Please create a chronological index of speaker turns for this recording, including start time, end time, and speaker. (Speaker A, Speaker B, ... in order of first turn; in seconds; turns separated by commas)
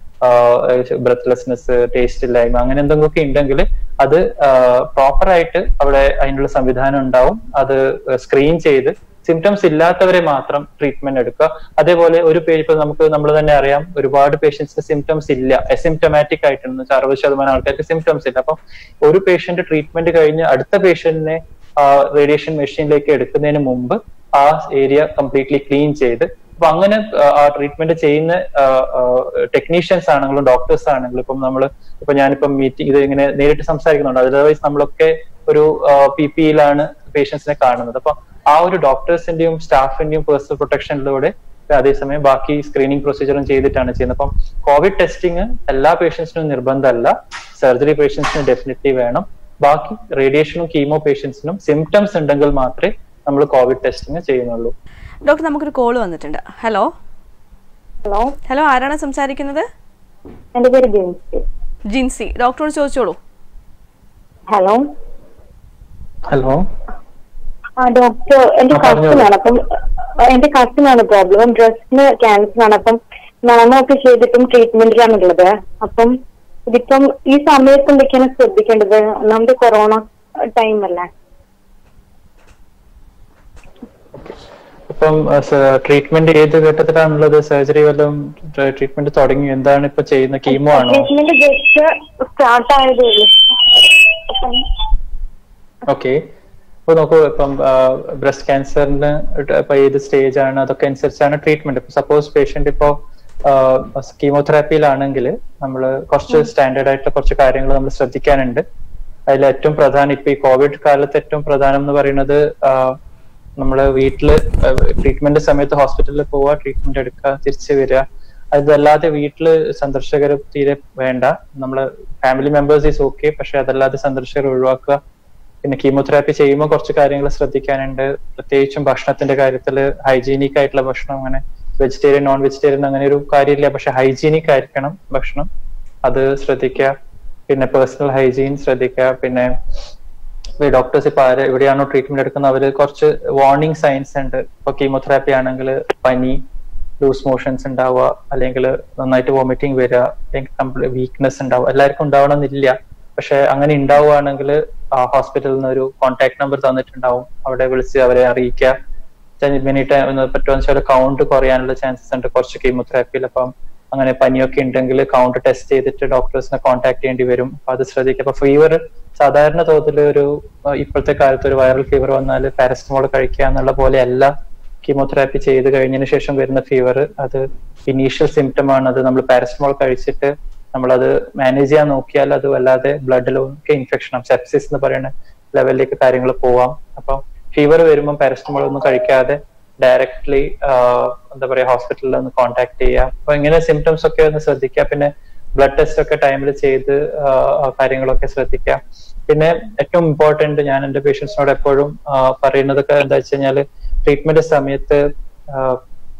Speaker A: 0.2-54.7, Speaker B: 55.2-56.9, Speaker C: 58.0-58.3, Speaker B: 58.5-59.6, Speaker C: 60.5-61.4, Speaker B: 61.9-63.2, Speaker C: 64.5-64.8, Speaker A: 66.3-66.7, Speaker C: 67.8-69.6, Speaker A: 68.7-69.3, Speaker C: 70.2-76.1, Speaker C: 76.7-81.1, Speaker A: 84.9-91.1, Speaker C: 90.5-94.7, Speaker A: 95.9-96.3, Speaker A: 96.9-108.6, Speaker A: 109.3-113.0, Speaker A: 113.6-125.0, Speaker A: 125.6-135.5, Speaker A: 136.0-136.9, Speaker A: 137.5-139.5, Speaker A: 140.6-146.4, Speaker A: 147.0-158.7, Speaker A: 159.4-174.3, Speaker A: 174.8-205.8